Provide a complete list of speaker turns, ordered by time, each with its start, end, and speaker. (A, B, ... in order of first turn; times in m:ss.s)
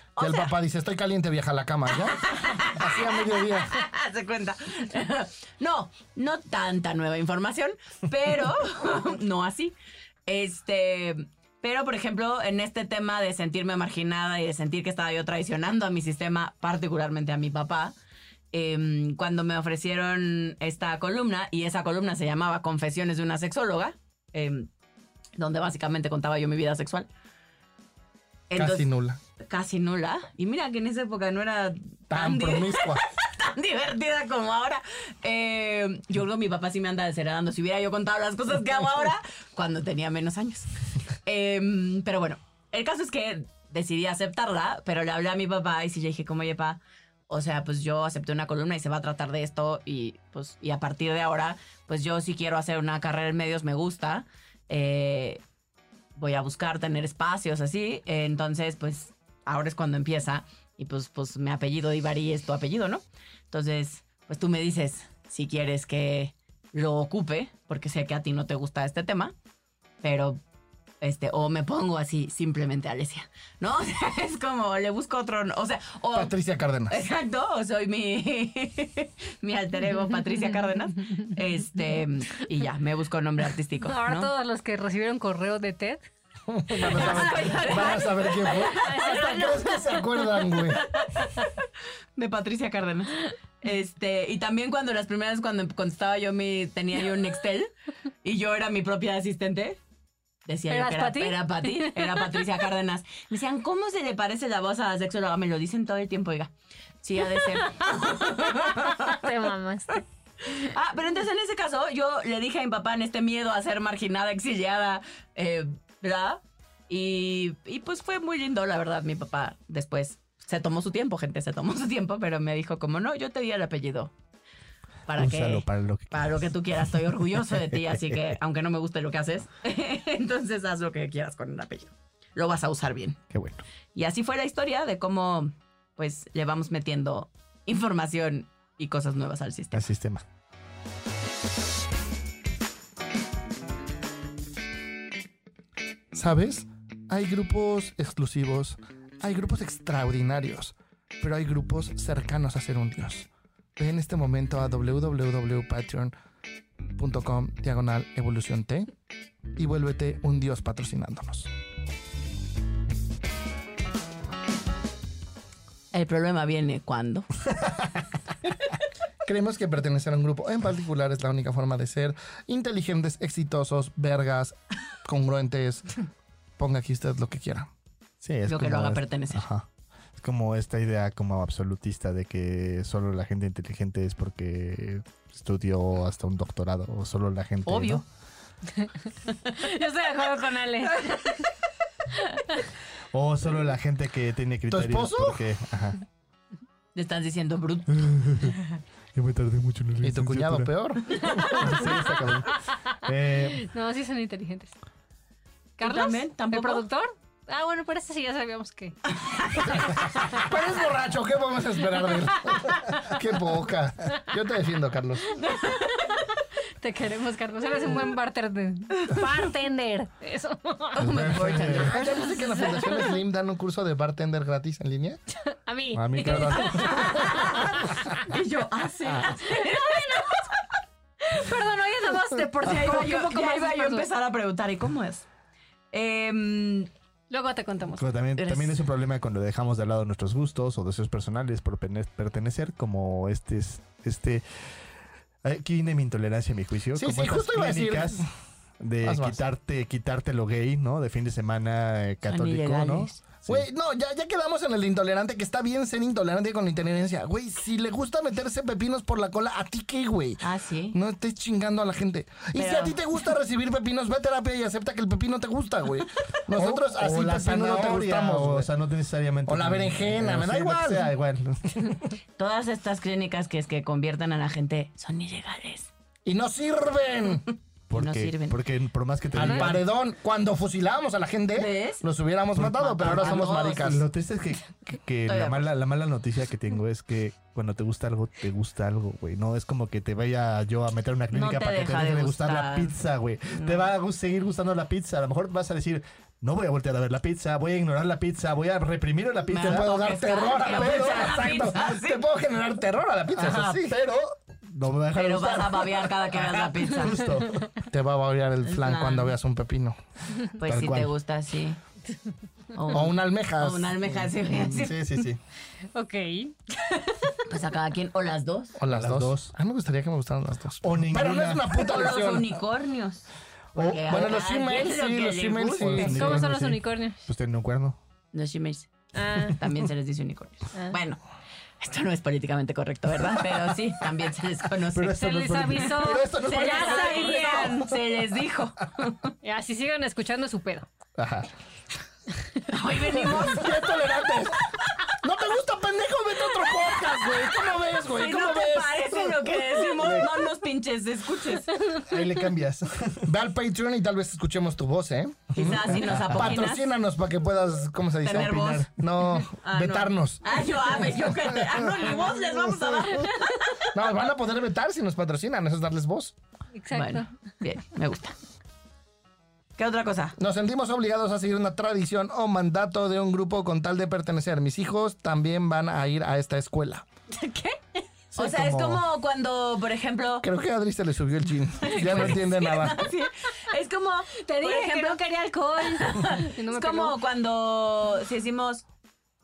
0:00.2-0:00.5 A
0:00.2-0:03.8 B
0:02.2-0:09.7 A
0:10.2-0:17.9 A
0:18.5-0:24.7 A
0:25.4-0:27.1 A
0:28.5-0:28.9 A
0:28.5-0:29.2 B
0:29.4-0:40.7 A
0:32.1-0:33.0 B
0:41.2-0:55.4 A
0:56.2-1:09.3 A
1:10.0-1:10.4 A
1:11.0-1:16.3 A
1:16.1-1:17.0 B
1:16.9-1:24.3 A
1:23.8-1:26.0 C
1:26.5-1:30.8 B
1:26.8-1:31.5 A
1:26.9-1:27.9 C
1:28.7-1:29.9 C
1:32.2-1:37.7 A
1:38.2-1:39.8 A
1:40.4-1:46.5 A
1:40.7-1:42.5 C
1:47.0-1:49.2 A
1:48.5-1:50.0 C
1:50.5-2:04.1 A
2:05.1-2:13.2 A
2:05.2-2:06.4 D
2:07.7-2:08.2 D
2:13.3-2:13.6 D
2:13.9-2:19.8 A
2:19.7-2:20.2 D
2:26.1-2:36.1 B
2:37.0-2:38.9 B
2:39.6-2:41.5 B
2:45.9-2:47.3 A
2:49.2-2:56.0 B
2:56.6-2:57.7 B
2:58.2-3:08.0 D
2:58.5-2:59.4 A
3:07.6-3:08.0 A
3:08.8-3:11.4 C
3:13.1-3:16.0 D
3:14.7-3:15.4 B
3:16.9-3:17.9 A
3:17.9-3:18.6 D
3:19.1-3:23.6 D
3:20.0-3:21.7 B
3:23.5-3:24.7 C
3:25.8-3:29.0 C
3:25.8-3:26.8 A
3:29.2-3:29.9 A
3:30.0-3:35.3 B
3:35.3-3:41.1 C
3:40.9-3:42.1 A
3:41.0-3:42.1 D
3:41.3-3:45.2 B
3:42.3-3:43.1 C
3:45.5-3:48.2 C
3:45.9-3:47.3 D
3:46.7-3:50.5 A
3:49.5-3:50.4 C
3:51.2-3:54.1 C
3:52.6-3:55.2 A
3:55.9-3:56.9 A
3:57.3-3:58.0 C
3:58.0-4:04.4 D
3:58.4-3:58.8 A
4:05.4-4:08.3 D
4:06.9-4:08.3 B
4:08.8-4:13.6 D
4:09.0-4:09.4 B
4:12.3-4:13.2 A
4:13.4-4:28.7 B
4:20.4-4:21.0 A
4:22.5-4:23.0 A
4:26.5-4:32.0 D
4:29.5-4:31.1 B
4:32.4-4:35.9 A
4:36.2-4:37.4 B
4:37.9-4:39.8 D
4:37.9-4:38.6 A
4:39.3-4:44.0 B
4:41.5-4:42.0 A
4:42.5-5:01.5 D
4:43.0-4:44.0 A
4:45.3-4:45.7 A
4:51.3-4:52.9 A
4:53.5-4:53.9 A
4:59.5-5:02.2 A
4:59.6-5:03.9 B
5:03.3-5:07.7 D
5:05.1-5:07.2 A
5:07.9-5:10.0 B
5:08.6-5:09.3 A
5:10.5-5:11.8 A
5:10.6-5:11.1 D
5:12.7-5:15.2 A
5:12.9-5:13.9 B
5:14.2-5:15.4 D
5:15.9-5:17.4 C
5:17.4-5:18.8 A
5:18.8-5:22.5 B
5:18.9-5:19.5 D
5:20.8-5:21.8 D
5:21.7-5:26.3 A
5:23.7-5:24.3 D
5:24.0-5:26.4 B
5:26.0-5:28.0 D
5:26.0-5:27.2 C
5:28.3-5:31.2 A
5:29.2-5:29.6 C
5:31.8-5:35.3 A
5:34.9-5:37.6 D
5:35.2-5:37.8 C
5:36.4-5:39.3 A
5:37.2-5:37.6 B
5:39.4-5:40.9 C
5:41.2-5:41.5 D
5:42.7-5:44.1 A
5:43.2-5:44.5 B
5:45.2-5:50.2 B
5:48.1-5:51.8 A
5:50.0-5:50.3 D
5:52.0-5:53.3 D
5:53.2-6:01.2 B
5:55.5-5:56.9 A
5:55.5-5:56.6 D
5:58.2-5:58.9 A
5:58.3-5:58.9 D
5:59.5-6:03.9 A
6:03.9-6:06.3 B
6:06.7-6:07.3 C
6:06.9-6:08.4 A
6:09.8-6:10.4 A
6:10.4-6:17.0 B
6:17.3-6:17.8 A
6:18.3-6:19.0 D
6:18.3-6:20.5 A
6:20.4-6:23.0 B
6:21.8-6:25.2 A
6:24.4-6:27.2 C
6:25.8-6:28.8 A